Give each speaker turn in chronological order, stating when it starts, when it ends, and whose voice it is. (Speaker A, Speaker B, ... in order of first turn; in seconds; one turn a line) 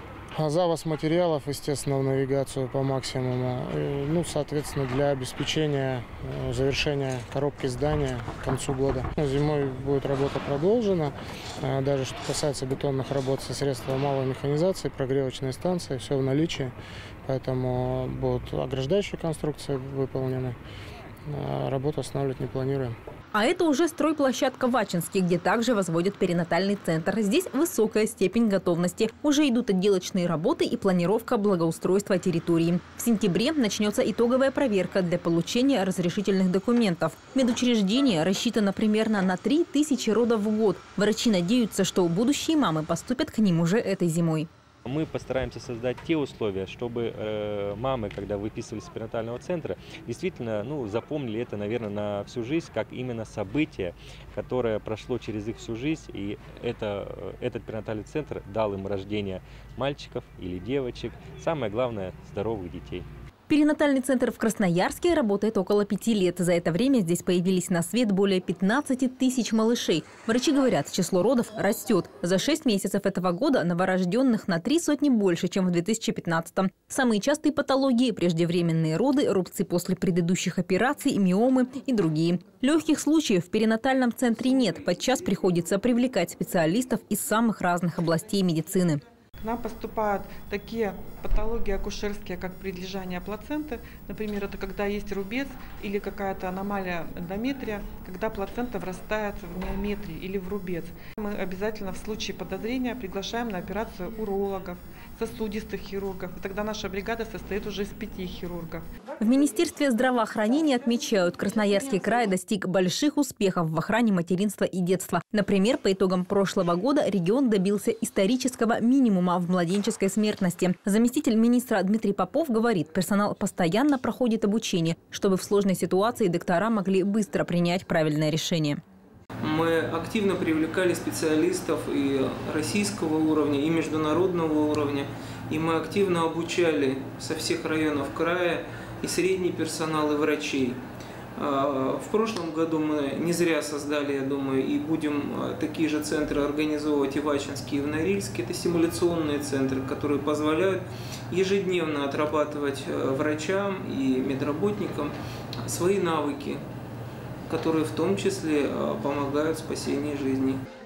Speaker A: 0.3-20.6
Speaker A: 21.3-23.0
Speaker B: 23.3-44.5
Speaker C: 44.9-63.1
Speaker B: 63.5-89.0
Speaker D: 89.4-108.8
Speaker B: 109.2-128.8
Speaker E: 129.4-140.8
Speaker E: 141.4-156.6
Speaker E: 157.5-160.6